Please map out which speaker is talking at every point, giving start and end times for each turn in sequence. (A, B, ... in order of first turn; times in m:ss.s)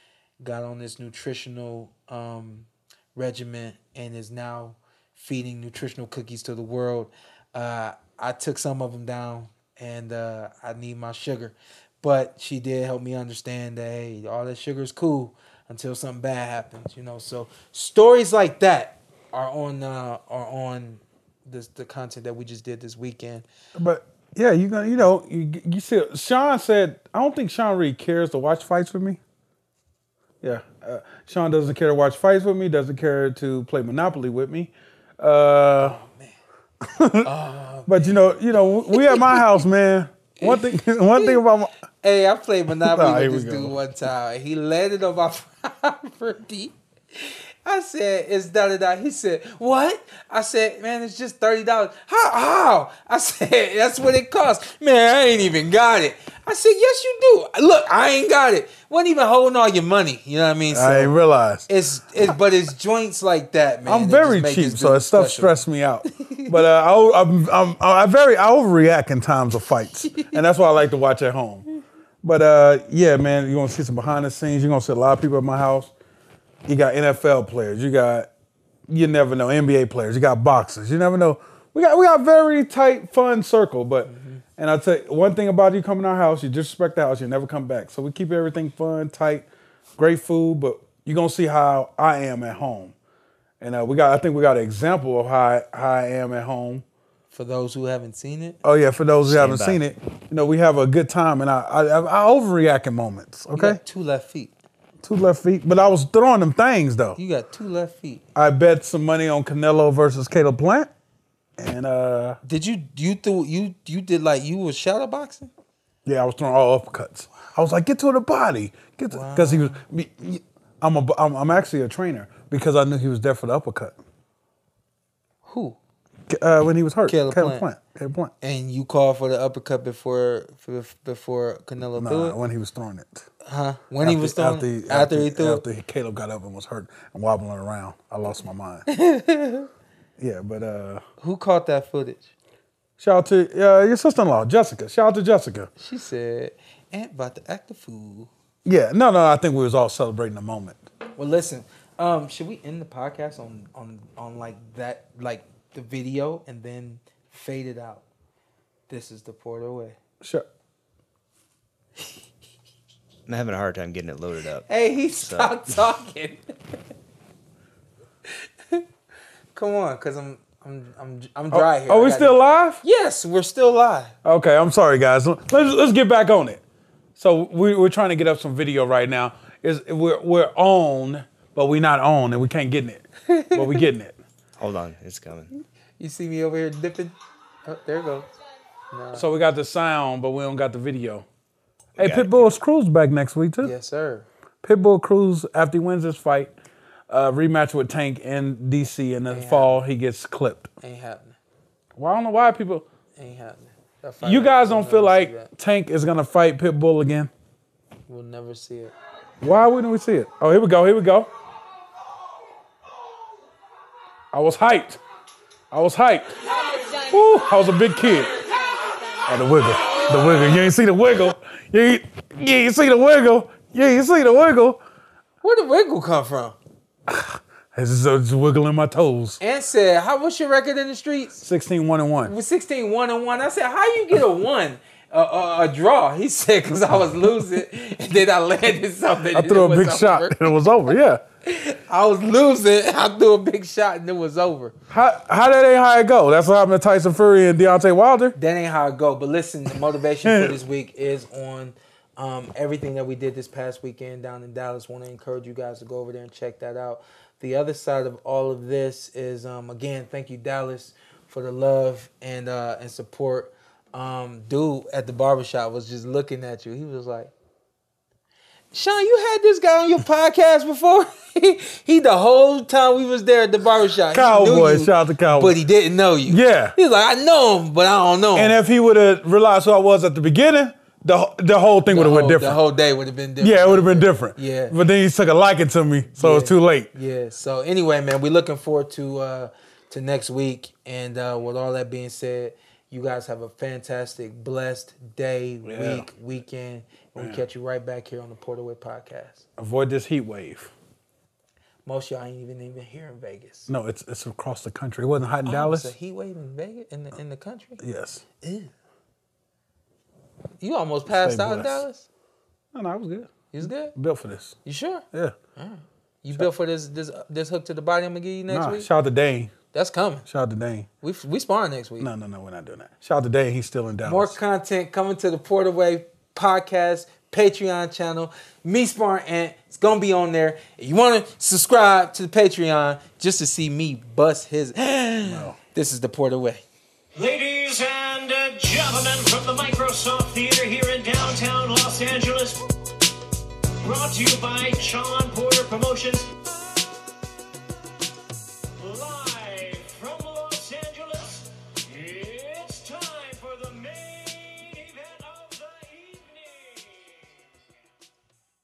0:00.4-0:23.4 A
0:23.8-0:29.2 B
0:30.4-0:36.0 B
0:35.8-0:36.3 A
0:36.8-0:37.3 B
0:37.2-0:38.3 A
0:37.9-0:41.7 B
0:38.9-0:39.4 A
0:40.4-0:41.4 A
0:42.0-1:01.1 A
0:42.8-0:43.7 B
1:00.7-1:01.7 B
1:01.7-1:06.6 A
1:03.8-1:11.6 B
1:12.2-1:15.9 B
1:16.6-1:18.3 B
1:18.9-1:32.9 B
1:24.0-1:24.4 A
1:33.6-1:36.8 B
1:37.3-1:38.6 A
1:38.6-1:43.8 B
1:39.2-1:39.8 C
1:43.5-1:44.5 A
1:45.0-1:47.2 B
1:47.2-1:48.2 A
1:48.3-1:50.9 B
1:51.6-1:52.4 B
1:52.4-1:55.5 A
1:56.0-2:04.0 B
1:59.1-1:59.8 A
2:05.4-2:05.8 A
2:06.3-2:08.3 B
2:07.1-2:07.6 A
2:08.4-2:12.4 A
2:12.0-2:13.3 B
2:13.4-2:15.6 A
2:14.0-2:18.8 B
2:18.9-2:19.7 A
2:20.2-2:21.0 B
2:21.2-2:22.2 A
2:23.0-2:25.7 B
2:25.8-2:28.3 A
2:28.6-2:30.9 B
2:31.2-2:38.0 A
2:38.9-2:40.0 A
2:40.2-2:40.5 B
2:43.3-2:44.6 C
2:44.7-2:46.8 A
2:45.2-2:45.5 C
2:49.5-2:54.1 A
2:51.5-2:52.8 B
2:54.2-2:56.6 B
2:57.2-3:04.2 B
3:03.3-3:03.8 A
3:04.6-3:05.5 C
3:06.0-3:07.1 A
3:07.6-3:08.3 A
3:08.9-3:09.3 A
3:09.1-3:11.2 B
3:12.0-3:13.7 B
3:12.0-3:12.5 C
3:13.6-3:14.3 A
3:14.6-3:16.5 B
3:17.1-3:20.7 B
3:19.3-3:19.8 A
3:20.8-3:21.4 A
3:22.0-3:22.8 B
3:23.2-3:25.5 A
3:24.2-3:27.3 B
3:28.1-3:28.9 A
3:29.4-3:31.3 B
3:34.3-3:35.0 B
3:35.7-3:36.4 B
3:37.0-3:38.3 B
3:39.3-3:44.8 B
3:45.4-3:46.6 A
3:47.1-3:49.4 B
3:49.4-3:51.4 A
3:51.4-3:52.3 B
3:52.2-4:00.7 A
3:59.3-4:01.2 B
4:01.4-4:04.8 A
4:04.9-4:08.4 B
4:08.4-4:27.3 A
4:10.2-4:10.6 B
4:28.7-4:38.5 A
4:34.1-4:35.6 B
4:36.3-4:36.7 B
4:38.3-4:42.6 B
4:41.9-4:44.8 A
4:43.4-4:46.9 B
4:46.1-4:59.4 A
4:55.6-4:56.1 B
4:57.2-4:57.4 B
4:59.6-5:00.7 B
5:01.8-5:03.7 A
5:03.7-5:05.9 B
5:05.4-5:07.8 A
5:07.8-5:08.2 B
5:08.4-5:08.7 A
5:10.6-5:12.0 A
5:11.1-5:11.8 B
5:12.7-5:13.3 B
5:13.5-5:13.9 A
5:13.9-5:14.6 B
5:14.6-5:15.0 A
5:15.6-5:18.9 A
5:18.5-5:19.5 B
5:19.7-5:20.2 A
5:20.3-5:20.9 B
5:21.0-5:22.1 A
5:22.0-5:24.4 B
5:24.0-5:36.6 A
5:35.2-5:35.6 B
5:37.1-5:42.6 D
5:43.8-5:46.3 D
5:48.8-5:57.3 D